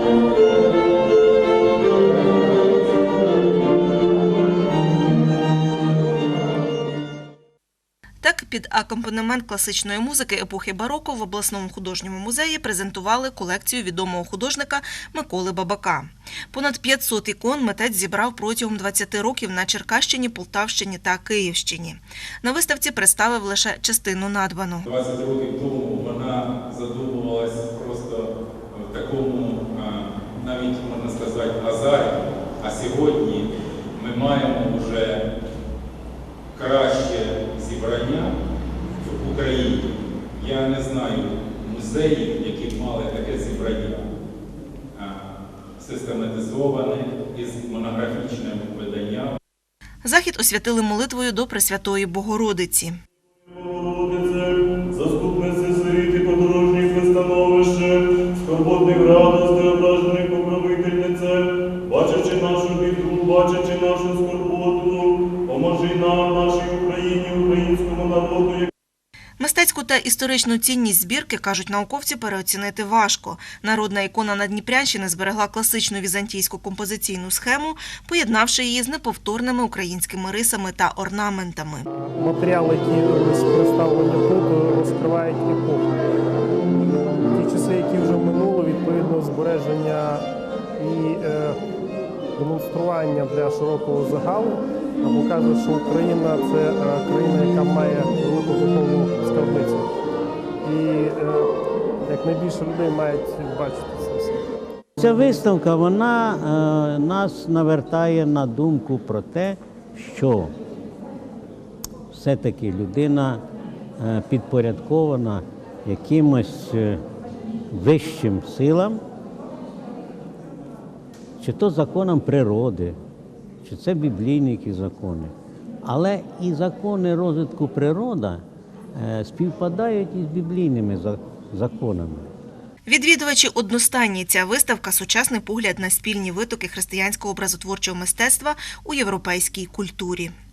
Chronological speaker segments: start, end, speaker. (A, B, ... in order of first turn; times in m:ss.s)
0:08.2-0:24.8 A
0:24.8-0:35.2 B
0:36.5-0:38.3 B
0:39.0-0:44.0 B
0:44.9-0:49.3 B
0:50.0-0:53.0 A
0:53.6-0:54.4 C
0:55.1-0:57.9 C
0:58.5-1:01.2 C
1:02.2-1:03.6 C
1:04.2-1:04.8 C
1:06.3-1:06.9 C
1:08.1-1:08.6 C
1:09.4-1:21.8 A
1:22.0-1:26.0 D
1:27.3-1:30.2 D
1:30.8-1:31.6 D
1:32.4-1:39.8 D
1:40.6-1:41.5 D
1:42.0-1:44.4 D
1:45.0-1:50.5 E
1:52.1-1:53.4 E
1:54.0-1:57.0 E
1:57.7-1:59.0 E
2:01.4-2:03.0 E
2:03.6-2:05.3 E
2:05.8-2:08.4 E
2:08.9-2:12.3 E
2:12.8-2:20.3 A